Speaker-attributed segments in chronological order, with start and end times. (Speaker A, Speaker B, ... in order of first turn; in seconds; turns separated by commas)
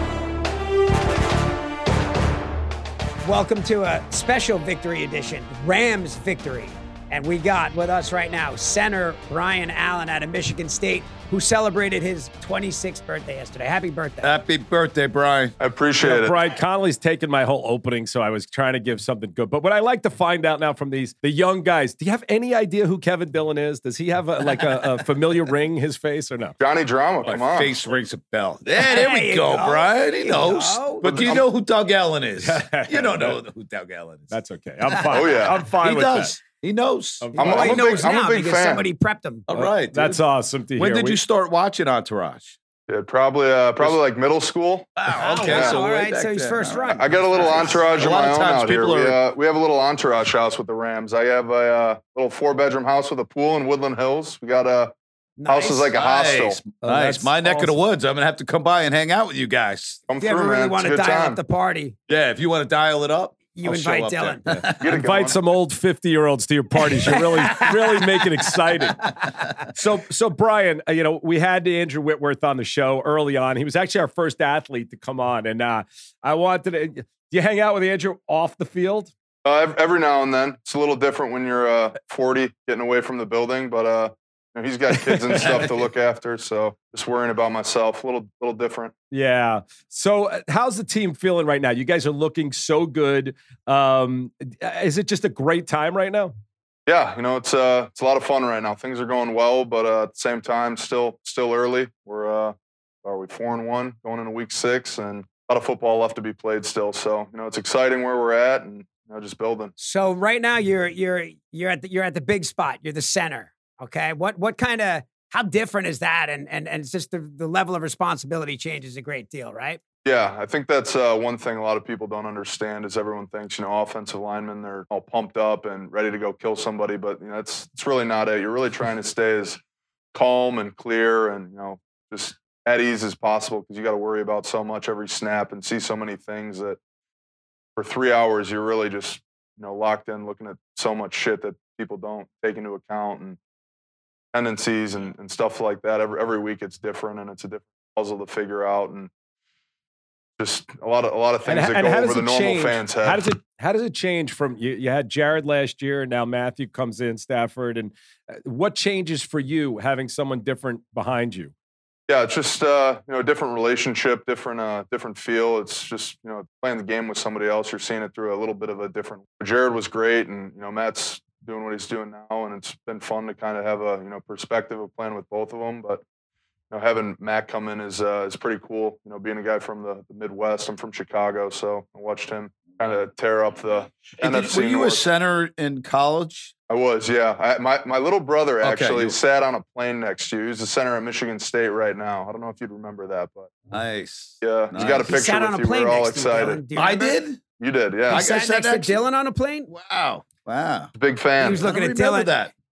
Speaker A: 3.2-14.3, Speaker B: 14.2-15.5, Speaker C: 15.6-16.4, Speaker D: 16.0-26.6, Speaker C: 26.6-27.8, Speaker B: 27.2-34.4, Speaker A: 28.8-31.4, Speaker C: 31.0-31.4, Speaker D: 32.4-33.4, Speaker D: 34.3-36.4, Speaker B: 34.9-37.3, Speaker C: 35.1-35.7, Speaker D: 37.2-37.9, Speaker A: 37.3-39.5, Speaker C: 37.4-38.9, Speaker B: 39.5-40.2, Speaker D: 39.5-41.2, Speaker B: 40.8-42.5, Speaker C: 42.9-45.8, Speaker B: 45.0-49.2, Speaker A: 45.1-47.9, Speaker C: 47.0-54.9, Speaker A: 55.4-55.9, Speaker C: 55.5-56.6, Speaker B: 55.9-60.0, Speaker D: 56.8-57.8, Speaker C: 60.1-61.4, Speaker A: 60.2-61.9, Speaker B: 62.1-64.8, Speaker A: 63.5-64.6, Speaker C: 64.8-65.4, Speaker D: 64.8-79.1, Speaker A: 66.9-67.7, Speaker C: 79.4-88.9, Speaker D: 85.0-85.6, Speaker D: 89.1-96.3, Speaker C: 96.8-109.7, Speaker A: 109.8-119.8, Speaker C: 120.0-129.6, Speaker C: 130.1-136.8, Speaker C: 137.8-143.4, Speaker C: 144.3-149.1, Speaker C: 150.4-153.3, Speaker D: 151.4-161.5, Speaker C: 162.1-176.0, Speaker C: 176.7-185.0, Speaker B: 184.2-186.5, Speaker C: 186.7-193.5, Speaker B: 188.6-189.2, Speaker B: 193.7-195.1, Speaker C: 194.4-196.6, Speaker A: 195.0-197.2, Speaker B: 196.7-197.4, Speaker C: 197.6-198.2, Speaker B: 198.1-199.0, Speaker A: 198.1-199.7, Speaker B: 199.7-200.9, Speaker C: 200.9-201.7, Speaker A: 201.4-202.3, Speaker B: 201.6-202.5